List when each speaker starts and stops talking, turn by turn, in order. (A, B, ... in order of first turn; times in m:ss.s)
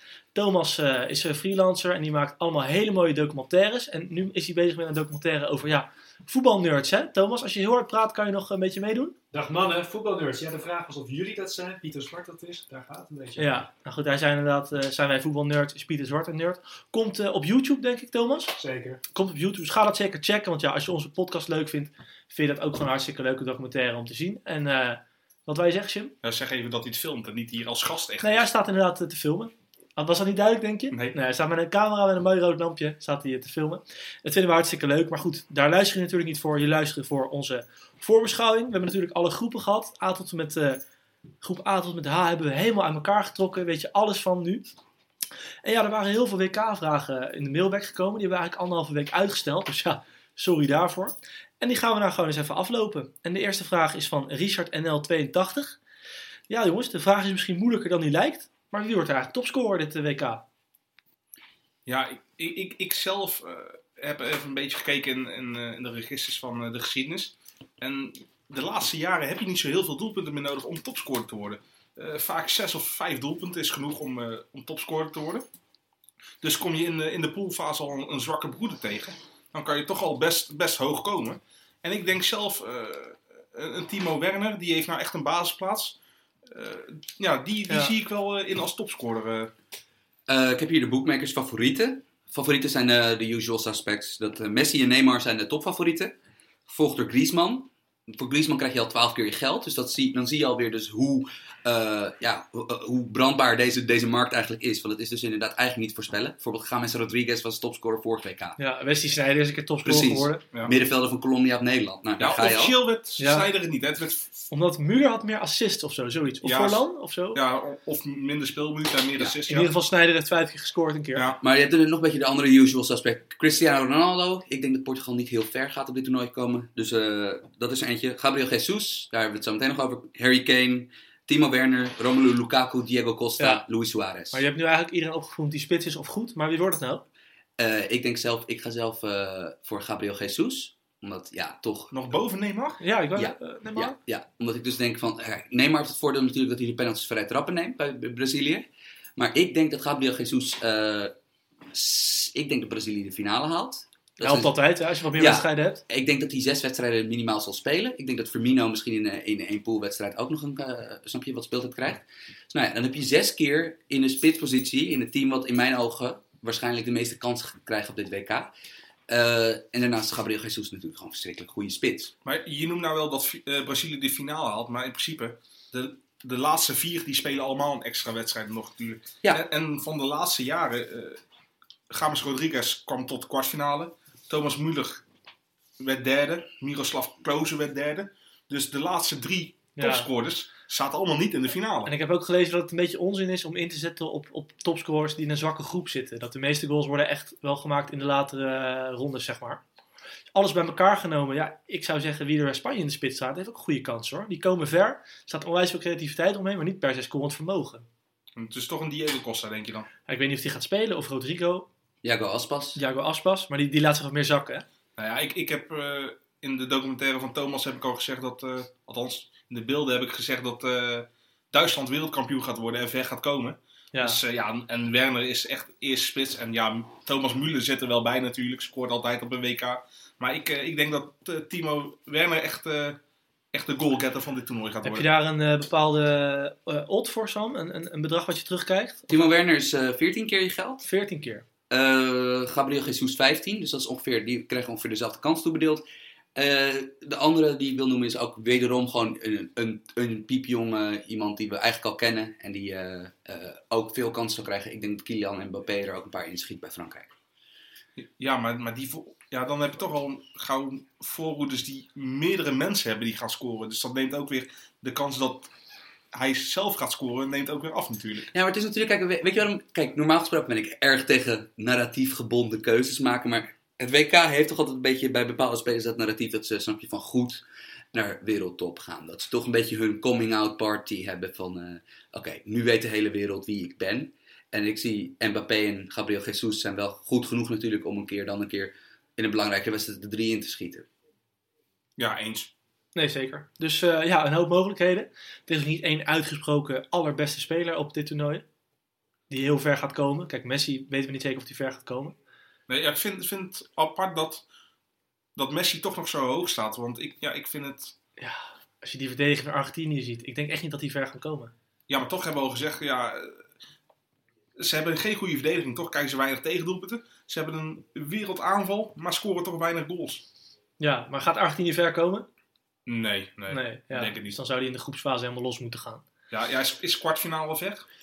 0:00.3-0:09.2 A
0:09.3-0:13.6 B
0:13.4-0:18.5 A
0:18.6-0:19.0 B
0:19.1-0:26.1 A
0:26.2-0:28.5 C
0:28.2-0:40.8 A
0:41.4-0:44.7 A
0:45.6-0:55.8 A
0:56.5-1:00.4 A
1:01.9-1:15.4 C
1:16.4-1:26.0 C
1:26.5-1:29.5 C
1:30.3-1:36.2 D
1:36.7-1:48.6 D
1:48.6-1:50.4 A
1:49.8-1:52.8 D
1:52.2-1:54.5 C
1:53.2-1:53.5 A
1:54.5-1:57.4 A
1:56.4-1:59.7 C
1:59.5-2:01.2 A
2:01.4-2:14.4 D
2:14.3-2:17.0 A
2:17.6-2:21.9 D
2:21.9-2:22.8 C
2:22.8-2:24.0 A
2:23.2-2:31.1 D
2:31.7-2:34.6 D
2:34.2-2:35.8 A
2:35.2-2:48.5 D
2:49.1-2:52.1 D
2:52.2-3:01.2 C
3:01.9-3:05.0 C
3:05.8-3:11.9 C
3:09.8-3:10.1 A
3:11.9-3:19.6 A
3:20.3-3:27.9 A
3:28.4-3:29.9 C
3:30.1-3:31.7 A
3:32.0-3:32.8 D
3:32.8-3:34.6 A
3:35.0-3:53.0 C
3:43.9-3:44.2 A
3:53.5-3:55.1 C
3:54.8-3:59.2 A
3:59.1-4:00.8 D
4:00.8-4:01.4 A
4:01.7-4:05.8 D
4:06.4-4:17.1 D
4:18.0-4:25.5 C
4:26.1-4:28.3 C
4:28.3-4:50.9 D
4:52.0-4:52.5 C
4:53.0-4:58.4 A
4:59.3-5:02.2 A
5:02.7-5:04.4 C
5:05.4-5:08.0 C
5:08.2-5:11.5 A
5:11.9-5:13.4 C
5:14.6-5:20.2 C
5:20.8-5:22.3 A
5:22.9-5:24.4 C
5:23.5-5:26.0 A
5:26.3-5:27.8 C